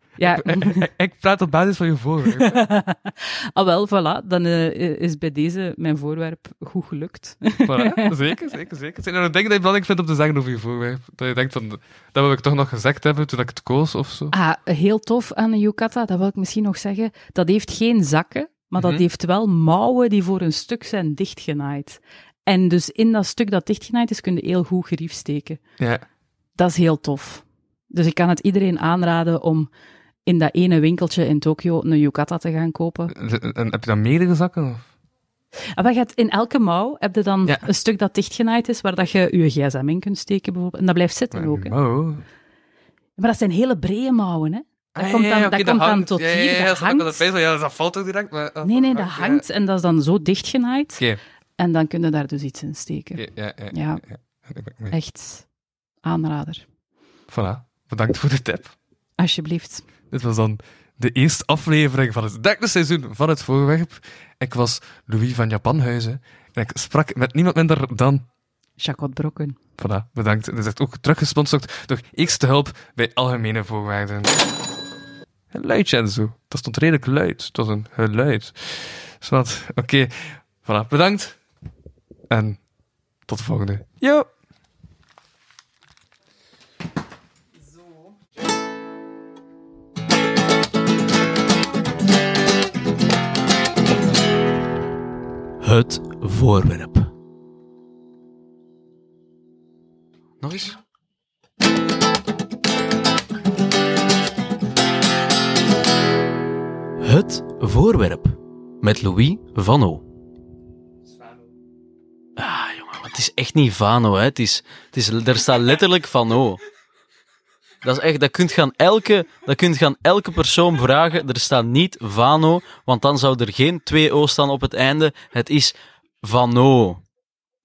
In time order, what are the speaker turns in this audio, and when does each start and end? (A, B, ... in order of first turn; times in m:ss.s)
0:00.2-0:00.9 A
0:00.2-0:02.6 B
0:02.3-0:08.3 A
0:07.7-0:14.3 B
0:14.3-0:25.6 A
0:18.8-0:19.0 B
0:25.8-0:26.0 B
0:26.6-0:29.7 A
0:30.3-0:33.1 A
0:33.1-0:34.8 B
0:35.8-0:41.8 A
0:41.3-0:42.2 B
0:43.2-0:47.3 A
0:45.0-0:49.4 B
0:48.6-0:51.0 A
0:51.6-0:54.0 A
0:53.2-0:55.0 B
0:54.9-0:55.5 A
0:56.0-0:56.6 A
0:57.3-0:58.8 B
0:59.2-0:59.9 A
1:00.1-1:08.3 B
1:08.8-1:09.6 A
1:09.8-1:14.4 B
1:15.5-1:21.4 B
1:22.3-1:22.6 B
1:23.3-1:24.3 B
1:35.6-1:37.1 C
1:40.4-1:40.8 C
1:47.0-1:50.0 C
1:52.4-1:56.6 C
1:57.8-2:07.0 C